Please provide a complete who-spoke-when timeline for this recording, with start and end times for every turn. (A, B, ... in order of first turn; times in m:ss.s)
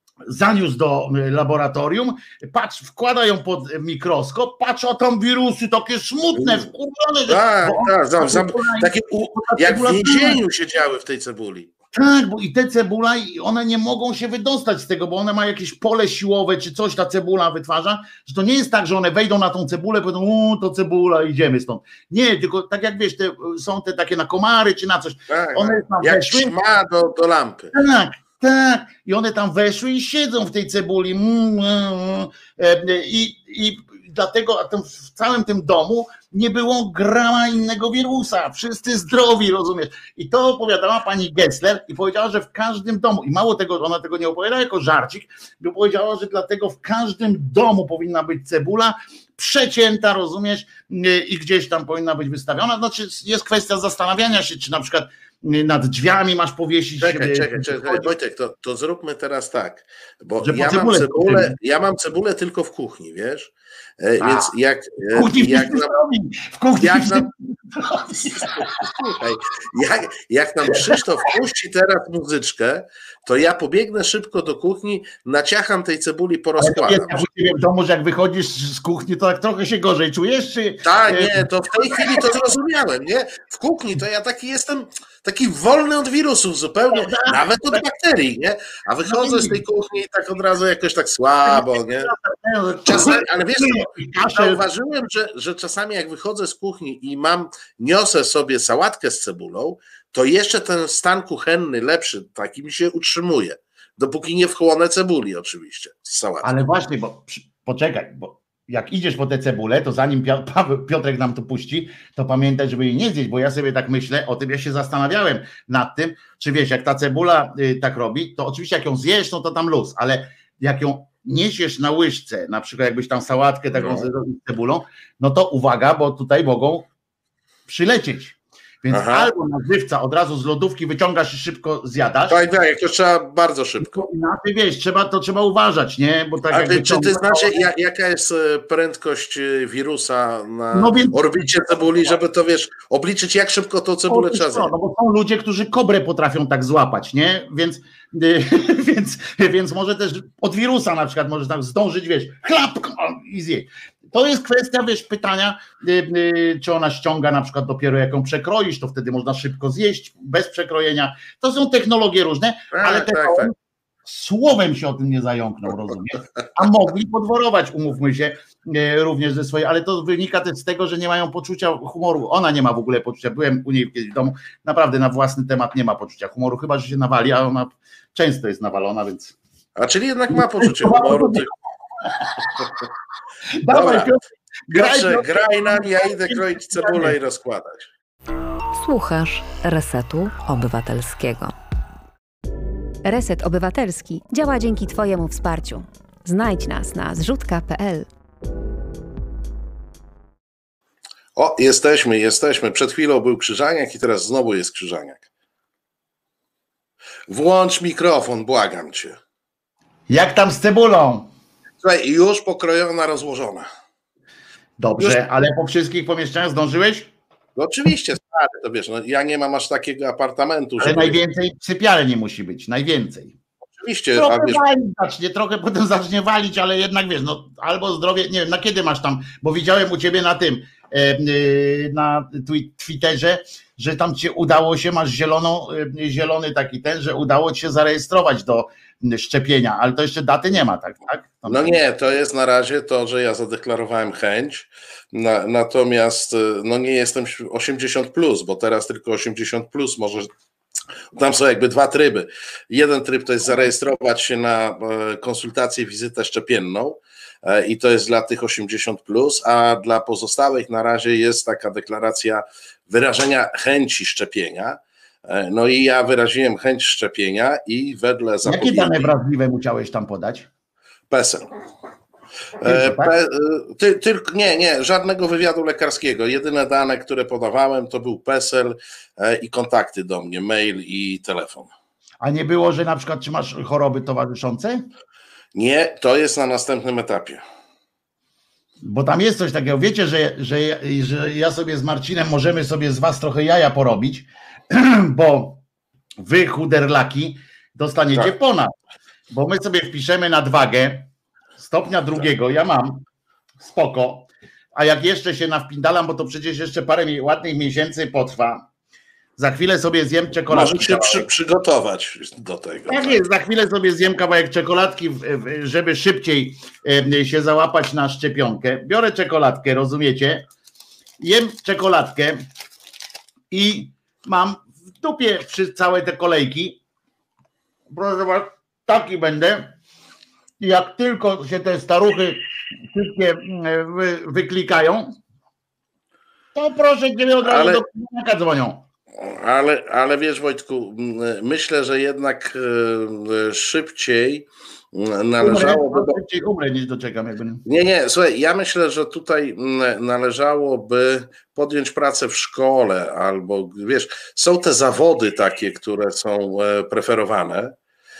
0:00.3-0:10.4 A
0:06.3-0:06.6 B
0:07.3-0:11.7 B
0:11.9-0:26.5 A
0:25.3-0:27.7 B
0:27.7-0:58.1 A
0:57.0-1:05.9 B
1:00.4-1:01.6 A
1:04.2-1:04.5 A
1:05.1-1:08.7 A
1:06.8-1:07.3 B
1:08.4-1:17.3 B
1:16.6-1:22.2 A
1:20.8-1:32.1 B
1:26.9-1:27.8 A
1:29.1-1:29.6 A
1:31.4-1:34.6 A
1:32.8-1:46.5 B
1:46.4-2:06.8 A
2:03.7-2:04.1 B
2:07.7-2:12.4 A
2:08.9-2:09.3 B
2:12.3-2:14.1 B
2:13.8-2:17.7 A
2:16.5-2:24.7 B
2:20.7-2:21.2 A
2:24.1-2:43.5 A
2:42.7-2:43.5 B
2:44.0-2:59.3 A
2:59.8-3:01.5 B
3:00.3-3:01.5 A
3:02.1-3:02.6 A
3:03.6-3:07.2 A
3:03.7-3:04.1 B
3:04.7-3:07.9 B
3:08.7-3:11.5 C
3:13.0-3:18.1 D
3:21.4-3:25.2 B
3:27.3-3:29.2 B
3:30.1-3:31.3 A
3:31.8-3:33.7 B
3:34.8-3:37.1 A
3:37.6-3:41.2 B
3:40.8-3:43.4 A
3:43.8-3:44.6 B
3:44.2-4:01.8 A
4:01.4-4:10.3 B
4:11.1-4:29.1 B
4:28.4-4:30.5 A
4:31.1-4:31.5 B
4:32.6-4:41.7 B
4:32.6-4:33.1 A
4:42.2-4:44.8 A
4:45.5-4:47.4 B
4:48.8-4:55.6 A
4:56.2-4:58.7 A
4:59.3-5:03.0 A
5:03.6-5:08.6 A
5:09.4-5:11.2 A
5:10.5-5:13.2 B
5:12.9-5:20.5 A
5:21.2-5:22.4 A
5:23.5-5:26.8 A
5:27.9-5:29.7 A
5:30.6-5:35.1 A
5:36.5-5:38.8 A
5:37.4-5:37.8 B
5:39.1-5:46.2 B
5:45.4-5:47.6 A
5:47.6-5:57.7 B